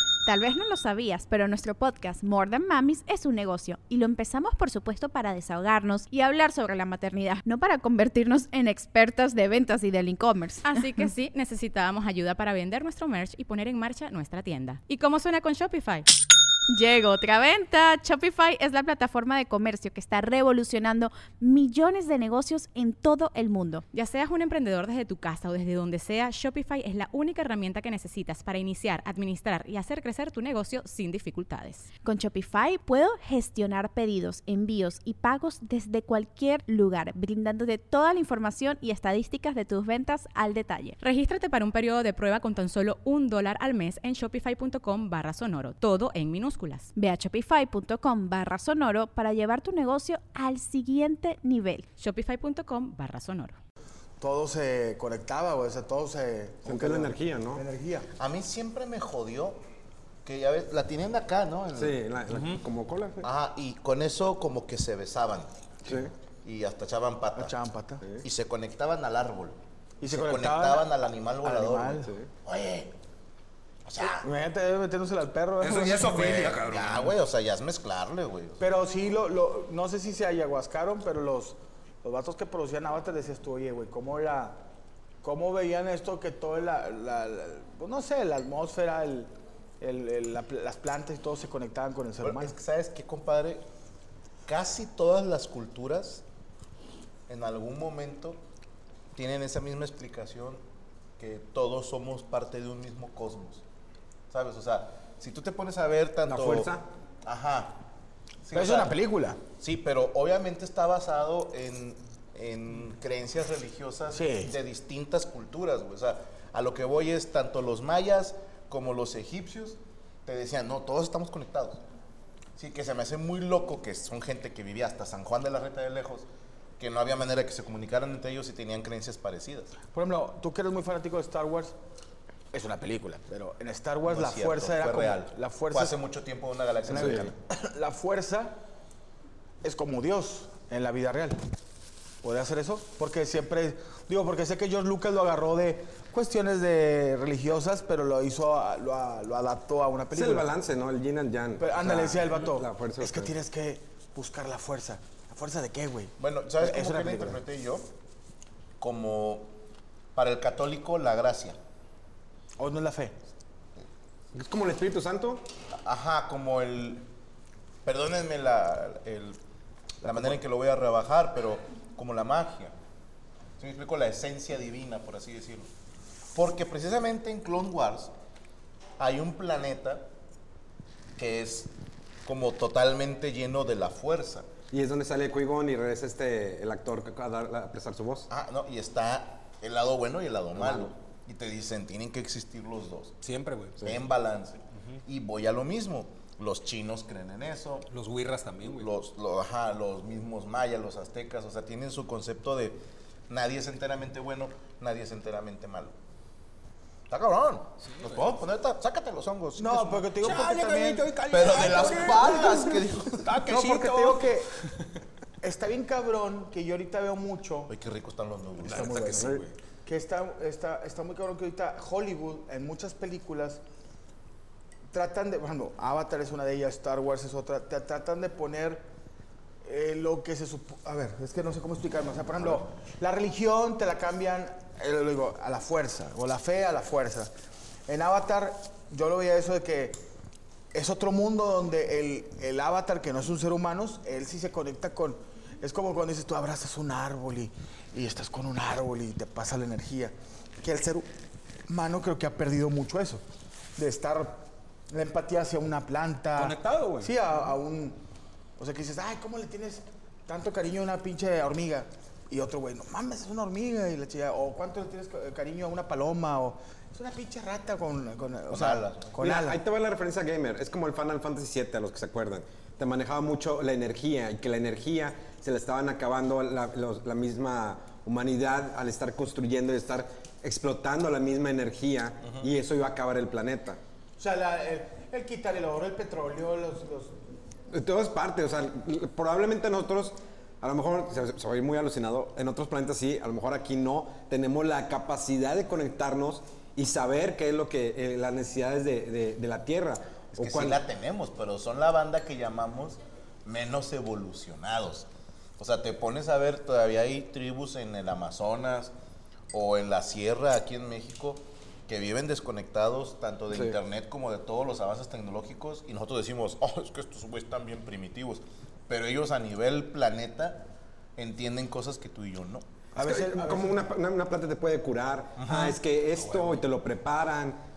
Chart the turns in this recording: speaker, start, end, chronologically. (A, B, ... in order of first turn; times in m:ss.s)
0:00.3-0:10.8 A
0:10.6-0:16.1 B
0:16.7-0:23.8 A
0:23.9-0:31.9 B
0:32.0-0:41.0 A
0:41.0-0:46.9 B
0:47.0-0:51.9 A
0:52.0-0:53.6 B
0:54.2-0:58.1 C
0:56.6-0:57.6 D
0:58.2-0:59.6 E
1:00.2-1:02.0 E
1:01.8-1:03.3 D
1:03.2-1:05.6 E
1:05.9-1:06.1 D
1:06.4-1:07.6 E
1:07.4-1:08.0 C
1:08.2-1:12.9 E
1:10.0-1:12.1 C
1:13.8-1:14.3 E
1:14.0-1:16.6 C
1:15.6-1:17.1 F
1:16.4-1:18.6 E
1:18.6-1:24.6 C
1:25.2-1:32.6 C
1:32.2-1:33.6 E
1:34.5-1:36.2 E
1:37.3-1:38.4 E
1:39.1-1:40.6 E
1:41.2-1:43.6 E
1:44.3-1:46.7 E
1:46.3-1:46.8 D
1:47.2-1:47.8 E
1:48.4-1:49.0 E
1:48.5-1:49.4 C
1:49.6-2:01.8 E
1:54.1-1:54.5 C
2:02.6-2:06.3 E
2:06.8-2:09.7 E
2:09.9-2:11.8 C
2:12.5-2:16.0 C
2:14.0-2:17.3 E
2:16.9-2:18.6 C
2:17.0-2:17.3 D
2:19.6-2:21.4 C
2:22.2-2:30.5 C
2:30.1-2:33.3 D
2:31.6-2:37.4 C
2:36.2-2:37.9 E
2:38.8-2:39.5 E
2:40.2-2:41.6 E
2:42.6-2:43.2 C
2:44.3-2:45.4 D
2:45.8-2:47.0 E
2:47.8-2:49.4 E
2:50.0-2:52.7 E
2:50.0-2:50.3 D
2:53.6-2:55.7 E
2:56.3-2:58.1 E
2:59.0-3:00.1 E
3:01.2-3:01.7 E
3:02.2-3:04.5 E
3:04.7-3:08.3 D
3:08.3-3:13.2 E
3:13.2-3:14.0 F
3:13.8-3:17.9 E
3:17.9-3:18.9 F
3:18.6-3:26.0 E
3:27.1-3:30.4 E
3:27.8-3:28.2 F
3:29.6-3:31.2 C
3:30.0-3:32.8 F
3:31.3-3:33.8 E
3:32.0-3:32.4 C
3:33.2-3:34.5 C
3:33.3-3:34.3 F
3:35.4-3:37.7 C
3:37.7-3:38.9 E
3:38.6-3:39.5 F
3:38.6-3:43.6 C
3:44.9-3:48.9 C
3:49.6-3:57.3 C
3:57.9-4:00.0 C
4:00.7-4:11.1 C
4:11.7-4:13.2 C
4:13.8-4:18.0 C
4:16.4-4:17.1 F
4:18.6-4:29.6 C
4:28.5-4:29.1 E
4:29.2-4:43.8 D
4:42.2-4:42.5 E
4:44.2-4:47.2 C
4:47.7-5:00.8 D
5:00.4-5:08.9 E
5:09.5-5:22.6 E
5:23.0-5:23.8 C
5:23.0-5:27.6 D
5:25.4-5:25.8 E
5:26.3-5:26.6 F